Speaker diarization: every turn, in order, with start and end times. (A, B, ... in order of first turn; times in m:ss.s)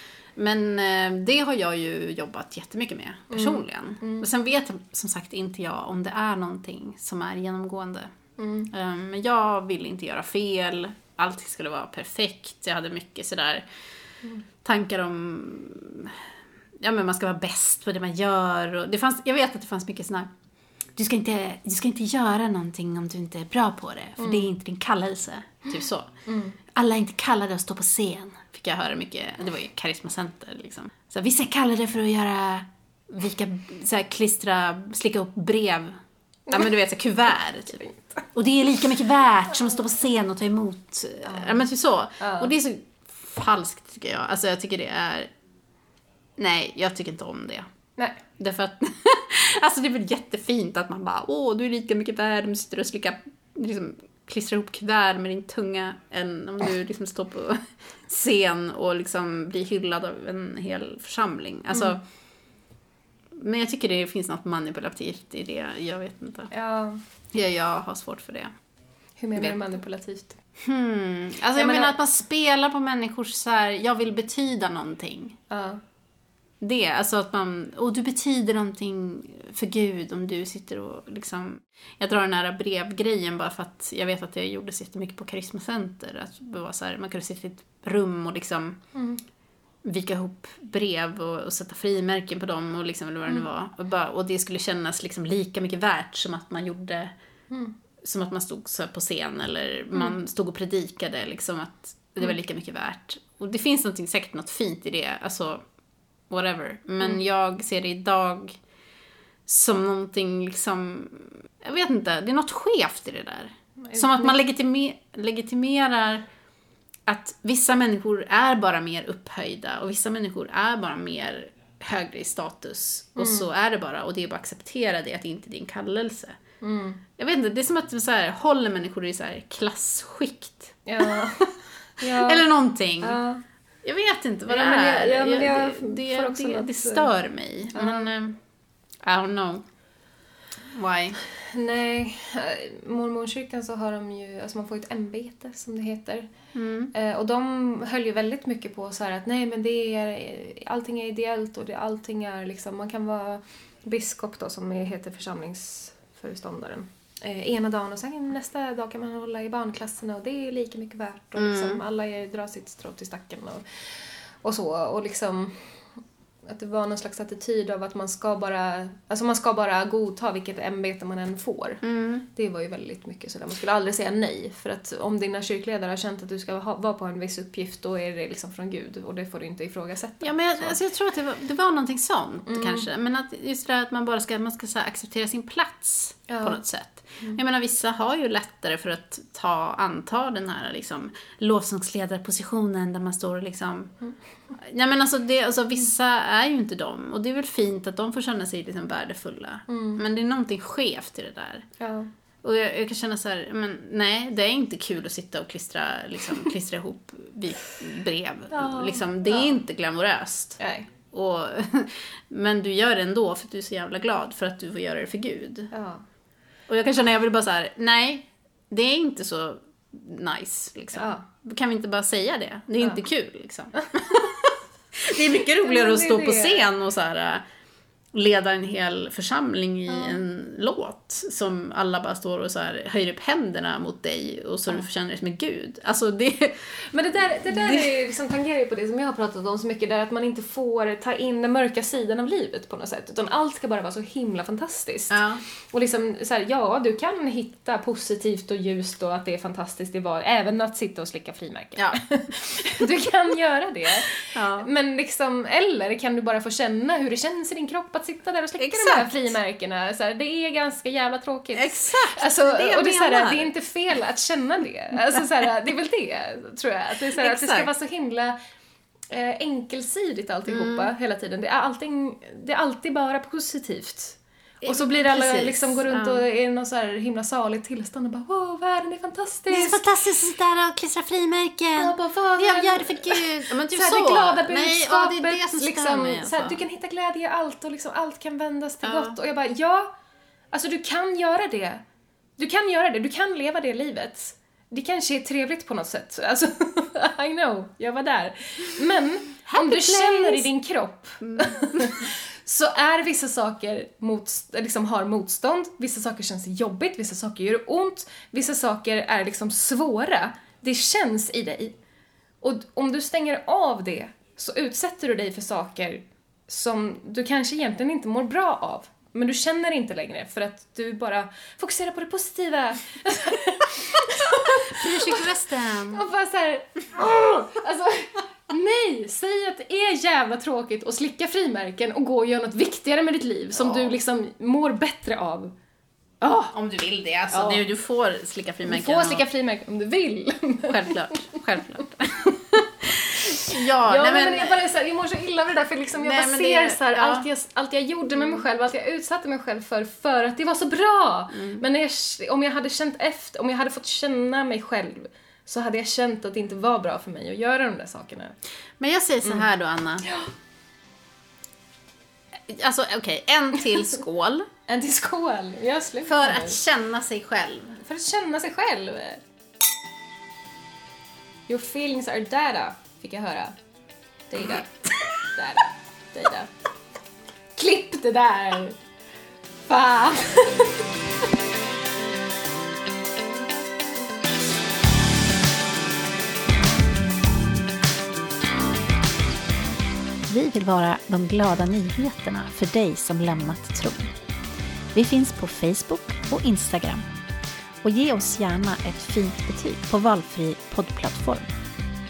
0:00.3-0:08.1 A
0:03.3-0:04.2 B
0:08.4-0:08.7 B
0:08.7-0:13.6 A
0:14.6-0:16.3 A
0:16.8-0:20.3 A
0:21.0-0:26.1 A
0:24.2-0:24.5 B
0:26.2-0:26.6 B
0:26.7-0:36.0 A
0:36.5-0:45.3 A
0:37.8-0:38.2 B
0:41.2-0:41.6 B
0:42.2-0:42.5 B
0:46.4-0:47.7 A
0:48.4-1:02.0 A
1:03.4-1:06.5 A
1:06.5-1:07.0 B
1:07.3-1:08.5 A
1:09.2-1:10.4 B
1:10.6-1:15.4 A
1:11.5-1:12.0 B
1:15.5-1:15.8 B
1:16.6-1:28.8 A
1:28.9-1:29.2 B
1:29.8-1:37.1 A
1:37.5-1:37.7 B
1:38.0-1:45.6 A
1:46.3-1:48.6 A
1:49.4-1:56.2 A
1:53.8-1:54.4 B
1:57.1-2:06.4 A
2:03.2-2:03.4 B
2:06.6-2:07.0 B
2:07.2-2:13.2 A
2:10.8-2:12.5 B
2:13.0-2:13.4 B
2:13.8-2:18.4 A
2:14.5-2:17.1 B
2:17.7-2:18.1 B
2:19.0-2:19.6 A
2:20.7-2:21.2 A
2:21.3-2:26.3 B
2:26.5-2:26.9 A
2:26.9-2:45.9 B
2:41.4-2:41.8 A
2:46.4-3:00.8 B
2:51.8-2:52.2 A
3:00.2-3:13.9 A
3:02.5-3:02.9 B
3:06.3-3:06.6 B
3:14.5-3:21.7 A
3:19.7-3:20.0 B
3:21.8-3:22.1 B
3:22.4-3:30.6 A
3:28.5-3:29.6 B
3:30.6-3:30.9 B
3:31.1-3:35.7 A
3:35.7-3:36.0 B
3:36.7-3:47.4 A
3:40.9-3:41.2 B
3:45.5-3:46.7 B
3:48.1-3:56.8 A
3:49.9-3:50.2 B
3:56.9-4:28.4 B
3:57.5-3:57.9 A
4:05.1-4:05.4 A
4:11.8-4:12.8 A
4:14.2-4:14.7 A
4:18.6-4:19.3 A
4:21.5-4:23.5 A
4:27.1-4:27.7 A
4:29.1-4:39.8 B
4:30.5-4:30.9 A
4:34.6-4:36.2 A
4:39.5-4:46.6 A
4:41.8-4:49.9 B
4:48.8-4:49.2 A
4:50.5-4:51.8 B
4:52.4-5:11.7 B
4:59.5-5:00.5 A
5:01.2-5:02.1 A
5:12.4-5:25.3 B
5:24.1-5:26.0 A
5:25.9-5:35.5 B
5:33.6-5:33.9 A
5:36.2-5:36.5 B
5:36.5-5:39.2 A
5:37.3-5:37.6 B
5:38.6-5:41.1 B
5:40.7-5:44.6 A
5:43.5-5:58.4 B
5:45.9-5:47.2 A
5:51.3-5:51.6 A
5:58.8-6:00.1 A
6:00.0-6:00.3 B
6:02.5-6:04.5 A
6:04.7-6:06.6 B
6:06.0-6:07.8 A
6:07.8-6:09.2 B
6:11.5-6:13.6 B
6:14.3-6:16.5 B
6:17.6-6:18.8 B
6:19.7-6:20.9 B
6:30.3-6:34.1 C
6:34.9-6:37.0 C
6:37.8-6:41.5 C